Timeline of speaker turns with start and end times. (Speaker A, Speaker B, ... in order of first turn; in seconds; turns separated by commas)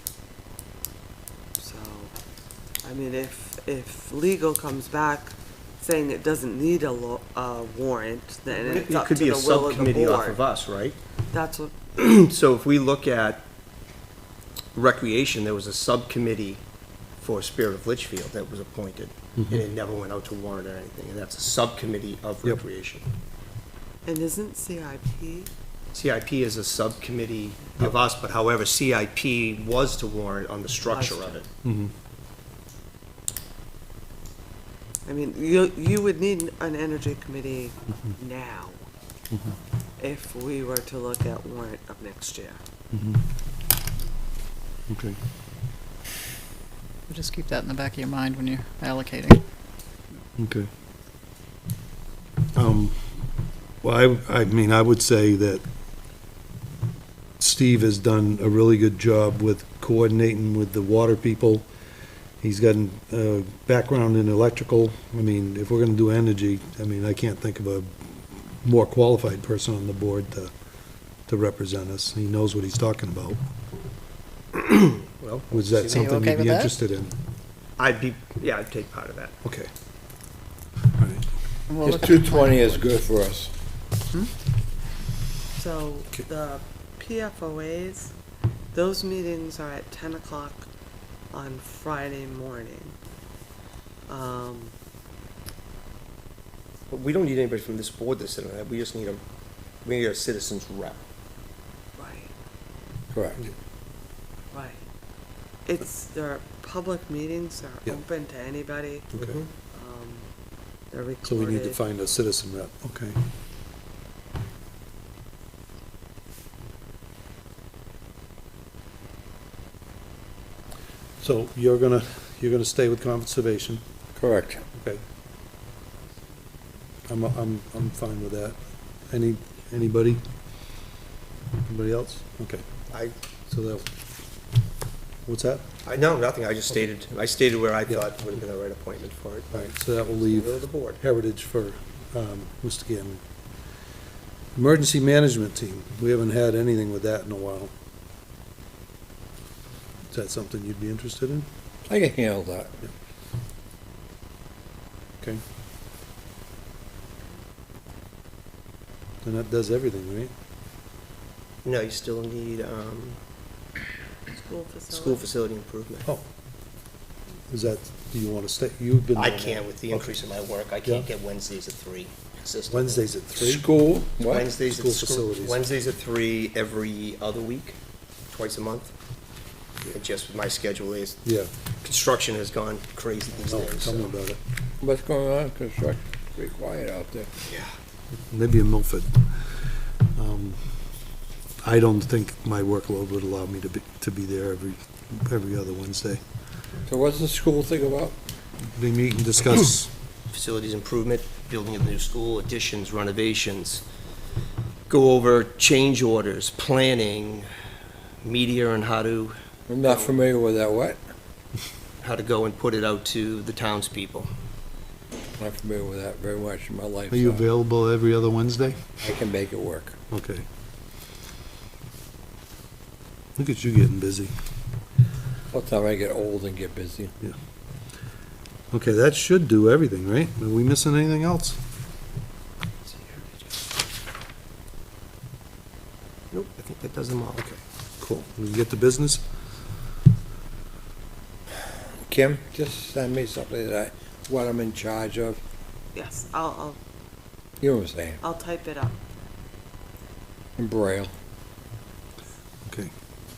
Speaker A: 1.6-2.1, Speaker A: 2.8-10.4, Speaker B: 8.5-11.0, Speaker A: 11.3-11.8, Speaker B: 12.0-13.4, Speaker B: 14.7-16.6, Speaker B: 17.2-23.1, Speaker C: 19.4-19.6, Speaker A: 24.0-25.5, Speaker B: 25.9-31.5, Speaker A: 30.9-31.4, Speaker C: 31.6-31.9, Speaker A: 35.0-38.9, Speaker A: 40.0-42.6, Speaker C: 42.9-43.2, Speaker C: 44.9-45.2, Speaker D: 47.1-49.4, Speaker C: 50.4-50.7, Speaker C: 52.5-53.0, Speaker C: 53.8-55.6, Speaker C: 57.4-61.7, Speaker C: 62.4-70.5, Speaker C: 71.3-73.4, Speaker B: 74.6-76.1, Speaker C: 75.5-77.2, Speaker D: 75.9-76.7, Speaker B: 77.8-79.4, Speaker C: 79.4-79.7, Speaker C: 80.9-81.2, Speaker D: 81.7-82.8, Speaker E: 81.8-83.5, Speaker A: 85.5-88.1, Speaker A: 88.7-90.7, Speaker A: 91.3-93.0, Speaker A: 94.1-94.7, Speaker B: 96.9-99.2, Speaker B: 99.8-101.0, Speaker A: 102.0-102.3, Speaker E: 103.1-103.4, Speaker A: 104.5-104.8, Speaker A: 105.6-109.1, Speaker C: 109.1-109.4, Speaker B: 109.1-109.5, Speaker A: 109.7-110.3, Speaker A: 110.9-111.8, Speaker C: 111.2-113.2, Speaker C: 121.2-123.8, Speaker E: 124.2-124.6, Speaker C: 127.1-128.6, Speaker C: 129.1-130.2, Speaker C: 131.7-132.6, Speaker C: 133.5-133.9, Speaker C: 135.3-135.7, Speaker B: 135.8-141.0, Speaker C: 139.5-143.2, Speaker C: 144.6-147.7, Speaker C: 150.1-151.5, Speaker E: 151.9-152.8, Speaker C: 159.2-160.3, Speaker B: 161.6-163.2, Speaker A: 164.3-165.3, Speaker B: 164.9-166.1, Speaker C: 167.5-170.1, Speaker B: 169.2-173.1, Speaker C: 172.7-173.7, Speaker E: 173.4-174.5, Speaker B: 174.2-177.8, Speaker C: 174.6-175.6, Speaker B: 178.3-178.9, Speaker B: 179.9-181.2, Speaker C: 181.2-181.5, Speaker B: 181.8-184.1, Speaker C: 183.4-184.4, Speaker E: 184.8-187.3, Speaker C: 188.3-189.3, Speaker C: 190.1-190.6, Speaker C: 191.6-196.2, Speaker E: 196.9-198.2, Speaker C: 198.7-199.9, Speaker B: 200.3-203.8, Speaker B: 204.9-207.5, Speaker B: 208.2-210.2, Speaker E: 209.7-211.0, Speaker B: 212.0-214.3, Speaker E: 215.4-217.4, Speaker C: 217.1-218.9, Speaker E: 219.0-220.0, Speaker C: 220.1-220.5, Speaker C: 223.4-224.3, Speaker E: 225.5-227.1, Speaker C: 228.7-231.6, Speaker B: 236.3-237.4, Speaker C: 237.3-239.2, Speaker E: 242.1-245.4, Speaker A: 245.9-246.8, Speaker E: 247.6-248.2, Speaker A: 248.2-249.0, Speaker E: 250.6-251.1, Speaker C: 252.7-252.9